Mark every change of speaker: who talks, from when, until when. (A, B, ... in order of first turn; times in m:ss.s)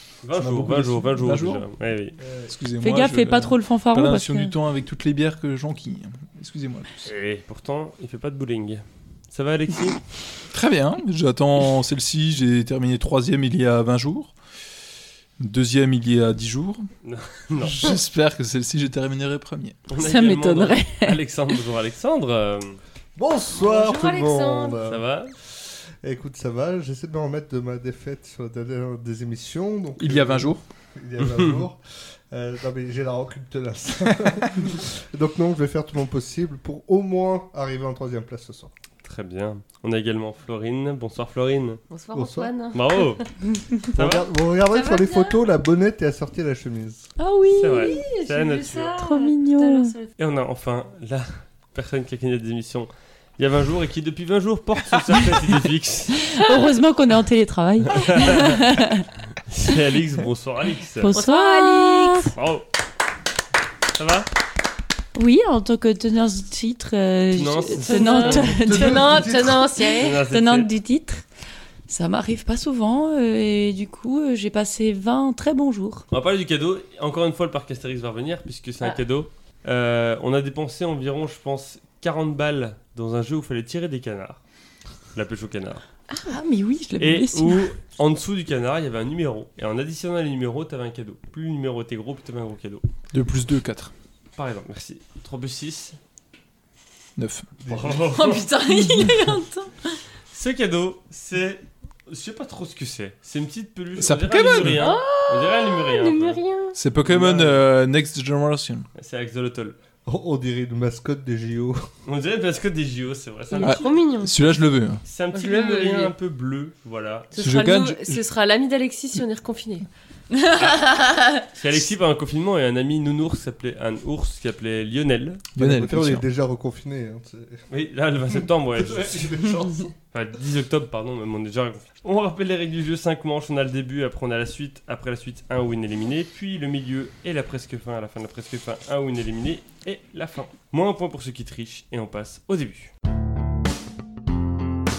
0:00.2-0:02.2 A
0:00.3-0:01.7 B
0:02.2-0:07.1 B
0:02.8-0:04.6 C
0:07.0-0:10.0 A
0:10.5-0:14.4 B
0:15.4-0:16.9 B
0:17.0-0:17.9 A
0:17.6-0:19.8 B
0:19.9-0:22.8 A
0:20.0-0:21.2 C
0:23.2-0:38.7 D
0:23.5-0:24.8 E
0:24.8-0:25.4 A
0:30.0-0:30.6 B
0:31.3-0:31.5 A
0:39.0-0:41.8 A
0:41.9-0:43.4 E
0:42.1-0:42.5 D
0:42.7-0:43.3 A
0:43.9-0:44.3 A
0:43.9-0:47.1 D
0:44.7-0:45.4 E
0:47.2-0:48.0 C
0:47.6-0:49.0 A
0:47.7-0:50.1 E
0:49.0-0:50.0 C
0:50.2-0:56.4 A
0:56.3-0:59.1 C
0:57.9-0:58.6 A
0:59.5-1:01.2 A
1:01.0-1:02.4 C
1:01.1-1:02.4 E
1:02.3-1:02.7 A
1:04.0-1:04.3 A
1:05.2-1:09.3 C
1:07.3-1:08.6 A
1:07.7-1:10.2 E
1:08.5-1:09.7 D
1:10.0-1:10.7 A
1:10.0-1:11.3 C
1:11.9-1:16.1 C
1:16.1-1:24.4 A
1:25.1-1:25.8 A
1:26.1-1:26.4 E
1:26.3-1:27.7 C
1:27.0-1:32.8 A
1:33.1-1:33.9 B
1:34.4-1:36.0 A
1:37.2-1:37.5 B
1:37.6-1:38.4 D
1:37.7-1:38.5 A
1:38.1-1:39.7 C
1:38.5-1:39.1 E
1:40.3-1:46.4 A
1:44.0-1:44.9 B
1:44.6-1:46.8 E
1:46.8-1:48.9 B
1:47.0-1:47.6 D
1:49.0-1:49.8 A
1:50.1-1:51.8 D
1:52.0-1:54.0 A
1:53.5-1:54.6 E
1:53.6-1:55.0 B
1:55.0-1:57.3 A
1:55.3-1:56.1 E
1:57.3-1:59.9 E
1:57.4-1:58.2 B
2:00.6-2:05.4 A
2:05.6-2:06.2 B
2:05.6-2:07.6 D
2:07.7-2:09.4 A
2:08.8-2:09.9 D
2:10.1-2:22.9 A